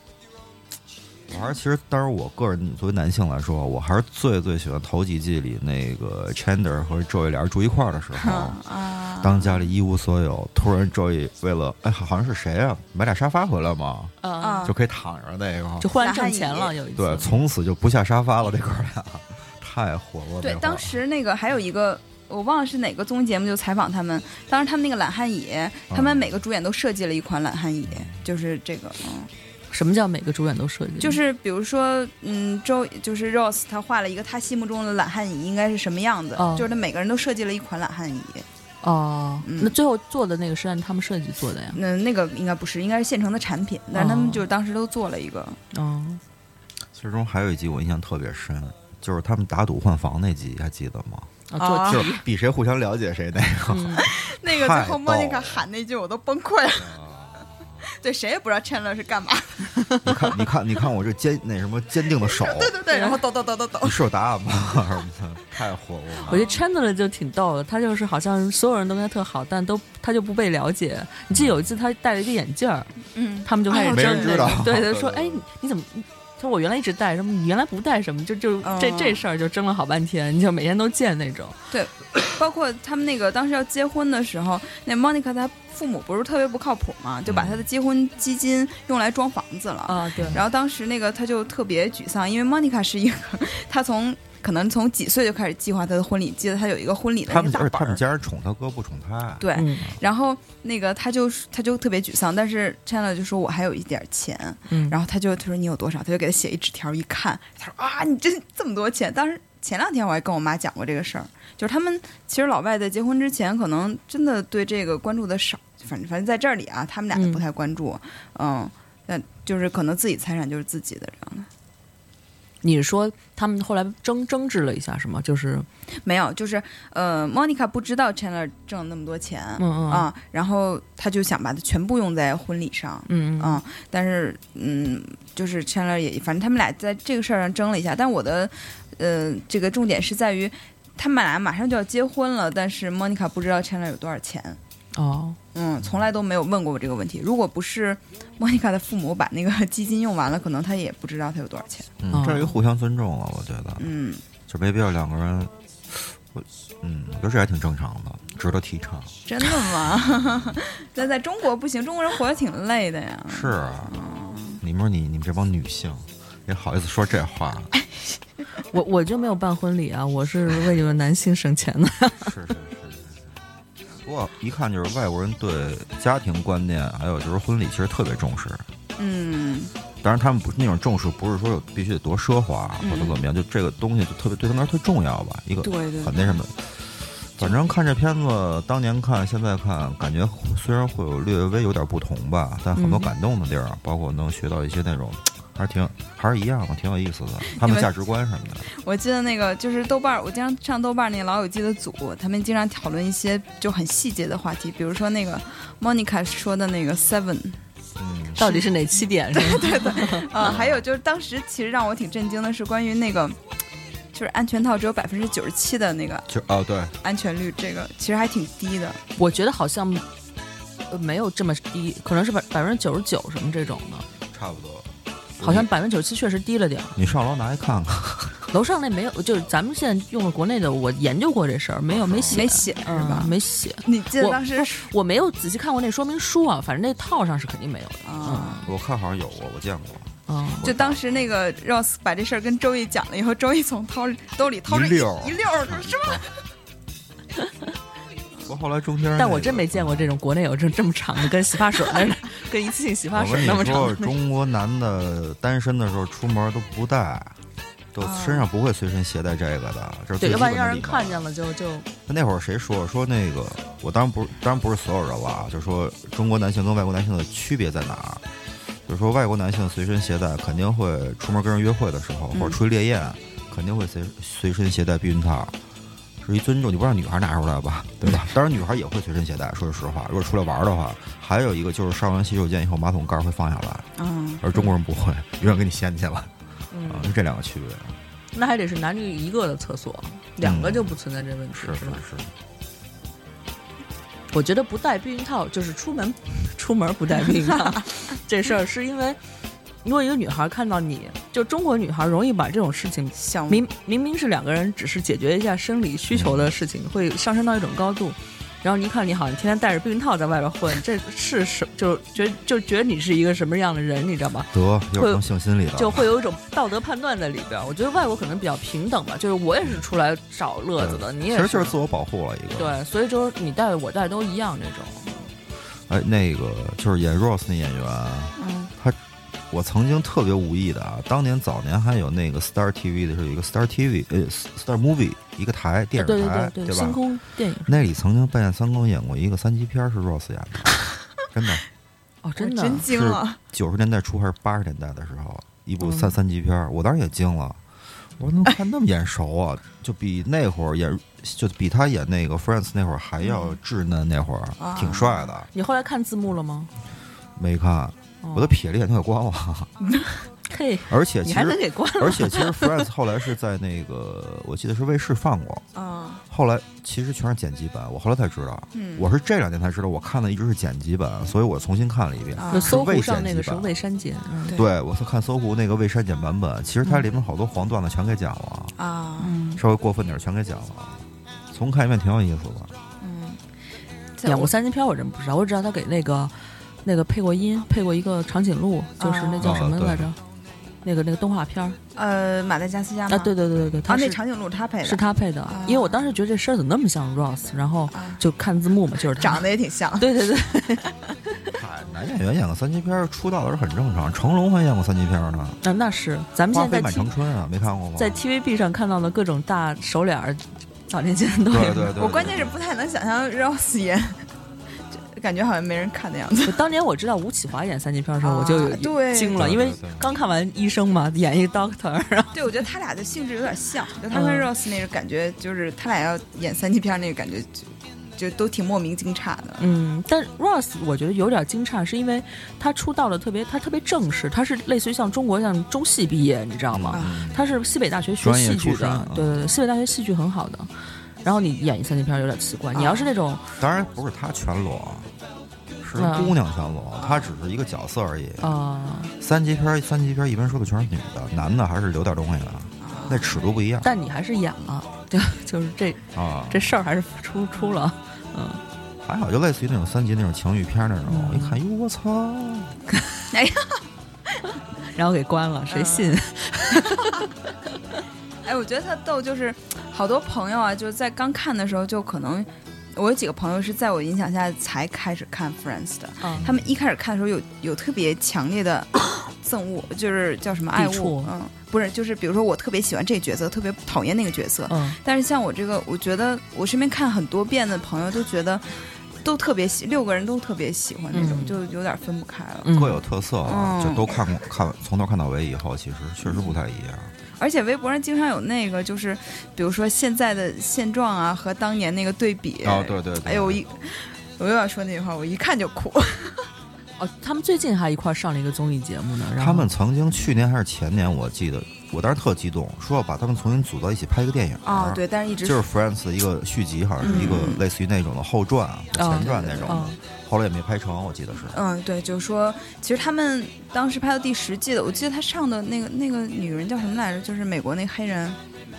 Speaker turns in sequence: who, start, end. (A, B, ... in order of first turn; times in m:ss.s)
0:01.3-0:08.6 A
0:08.2-0:09.7 B
0:09.2-0:15.9 A
0:14.2-0:14.7 C
0:14.4-0:14.8 B
0:15.8-0:17.4 C
0:16.0-0:16.8 B
0:17.0-0:21.0 A
0:20.4-0:29.3 B
0:25.9-0:26.4 A
0:27.9-0:28.2 A
0:29.7-0:31.2 C
0:31.0-0:38.5 B
0:36.4-0:36.7 C
0:38.8-0:41.8 C
0:39.4-0:39.8 B
0:41.7-0:45.6 B
0:43.9-0:44.4 C
0:45.7-0:46.2 C
0:46.9-0:55.7 A
0:51.5-0:52.2 C
0:51.6-0:52.0 B
0:53.7-0:54.1 C
0:54.0-0:56.9 B
0:56.8-0:57.9 A
0:57.9-0:59.7 B
1:00.0-1:02.8 A
1:02.2-1:04.0 B
1:02.9-1:03.2 C
1:03.8-1:06.4 A
1:06.3-1:06.6 B
1:06.3-1:12.9 C
1:11.3-1:11.7 A
1:13.1-1:14.6 B
1:13.4-1:21.6 C
1:13.8-1:15.5 A
1:18.6-1:19.3 B
1:21.7-1:38.0 B
1:27.3-1:27.7 A
1:29.9-1:30.4 C
1:30.2-1:30.4 A
1:37.3-1:39.5 A
1:39.4-2:01.5 B
1:39.6-1:39.9 C
1:44.7-1:45.0 C
1:57.1-1:57.4 C
2:02.6-2:05.7 C
2:06.0-2:24.6 B
2:09.6-2:10.1 C
2:13.1-2:13.6 C
2:25.0-2:25.4 C
2:25.5-2:31.9 B
2:32.0-2:33.9 A
2:32.1-2:32.5 C
2:33.8-2:34.2 B
2:34.5-2:39.9 A
2:39.3-2:44.6 B
2:43.3-2:44.0 A
2:44.6-2:47.7 A
2:48.7-2:52.3 C
2:52.2-2:53.4 A
2:54.0-2:58.7 A
2:59.0-2:59.7 B
3:00.0-3:18.7 A
3:02.8-3:03.2 B
3:05.6-3:06.4 B
3:12.8-3:13.1 C
3:17.5-3:17.9 B
3:18.7-3:27.6 B
3:28.0-3:28.4 A
3:28.4-3:30.3 C
3:28.4-3:33.4 B
3:30.4-3:30.8 A
3:34.1-3:36.3 B
3:36.3-3:37.0 A
3:37.0-3:39.0 B
3:39.2-3:40.0 C
3:40.9-3:44.1 C
3:44.3-3:45.7 A
3:45.4-3:47.0 C
3:47.0-3:48.4 A
3:48.5-3:58.7 C
3:51.9-3:52.5 A
3:52.3-3:54.9 B
3:58.0-3:58.6 B
3:58.6-4:01.0 A
4:00.3-4:00.7 C
4:00.6-4:06.3 B
4:04.7-4:06.3 A
4:08.5-4:10.1 A
4:09.2-4:14.1 C
4:13.1-4:17.4 A
4:17.9-4:21.2 A
4:18.0-4:18.5 B
4:20.2-4:21.9 C
4:22.1-4:28.2 A
4:28.9-4:35.6 A
4:36.2-4:43.9 A
4:44.0-4:44.4 B
4:44.4-4:46.3 A
4:46.7-4:47.2 C
4:46.9-4:48.0 A
4:48.3-4:52.0 C
4:50.4-4:51.0 A
4:51.5-4:52.3 A
4:54.3-4:59.2 C
4:59.8-5:15.2 C
5:03.1-5:03.7 B
5:06.1-5:06.5 A
5:14.5-5:16.1 A
5:15.8-5:21.8 C
5:20.8-5:22.8 A
5:22.6-5:25.2 C
5:25.9-5:29.0 A
5:28.4-5:28.7 B
5:29.5-5:41.6 A
5:36.0-5:37.7 C
5:42.2-5:42.9 C
5:42.4-5:43.4 B
5:42.8-5:47.6 A
5:45.8-5:46.1 C
5:48.2-5:55.5 A
5:53.2-5:53.6 B
5:54.6-5:55.3 B
5:55.5-5:56.7 C
5:57.4-5:59.7 A
5:58.2-5:58.5 C
5:59.8-6:00.2 B
6:00.5-6:02.8 C
6:00.9-6:05.7 A
6:05.8-6:06.2 B
6:06.3-6:13.7 A
6:08.7-6:09.1 B
6:12.4-6:12.8 B
6:12.5-6:14.6 C
6:14.5-6:18.8 A
6:18.8-6:19.3 B
6:19.2-6:19.6 C
6:19.6-6:22.7 A
6:23.0-6:23.4 B
6:24.2-6:24.5 B
6:24.2-6:26.3 C
6:26.8-6:30.2 C
6:29.0-6:29.6 B
6:29.4-6:30.1 A
6:30.8-6:31.8 C
6:32.0-6:33.4 B
6:33.1-6:34.2 C
6:33.6-6:33.8 A
6:33.9-6:36.0 B
6:34.8-6:39.4 C
6:37.9-6:38.2 B
6:39.1-6:40.1 B
6:40.0-6:40.9 C
6:41.5-6:45.6 A
6:45.6-6:47.1 C
6:46.5-6:48.2 A
6:48.0-6:51.9 C
6:51.5-6:52.5 A
6:52.0-6:54.2 B
6:54.9-6:56.6 B
6:56.5-7:02.4 C
6:58.2-6:59.4 B
6:59.3-7:00.1 A
7:02.3-7:09.6 B
7:04.1-7:04.5 C
7:09.6-7:20.7 C
7:16.7-7:17.5 A
7:18.2-7:19.4 A
7:21.2-7:23.4 C
7:22.7-7:23.1 B
7:23.6-7:25.1 A
7:25.8-7:28.6 A
7:26.0-7:26.4 C
7:27.0-7:27.3 B
7:28.4-7:29.1 C
7:29.2-7:33.9 A
7:32.8-7:33.4 B
7:33.8-7:38.6 C
7:36.1-7:36.8 A
7:39.0-7:42.7 A
7:41.1-7:41.6 C
7:43.3-7:43.8 B
7:45.0-7:47.3 C
7:45.7-7:46.2 B
7:48.4-8:12.7 B
7:56.2-7:56.5 C
7:56.3-7:56.7 A
8:00.8-8:01.3 C
8:04.7-8:05.0 C
8:11.1-8:11.6 C
8:12.6-8:13.0 C
8:12.7-8:17.1 A
8:13.5-8:14.2 B
8:16.2-8:16.6 B
8:17.4-8:26.5 B
8:22.6-8:23.6 A
8:27.0-8:29.7 C
8:29.4-8:41.6 A
8:34.6-8:35.6 B
8:37.0-8:37.6 B
8:37.0-8:37.4 C
8:39.0-8:40.0 C
8:39.1-8:39.8 B
8:41.5-8:48.4 B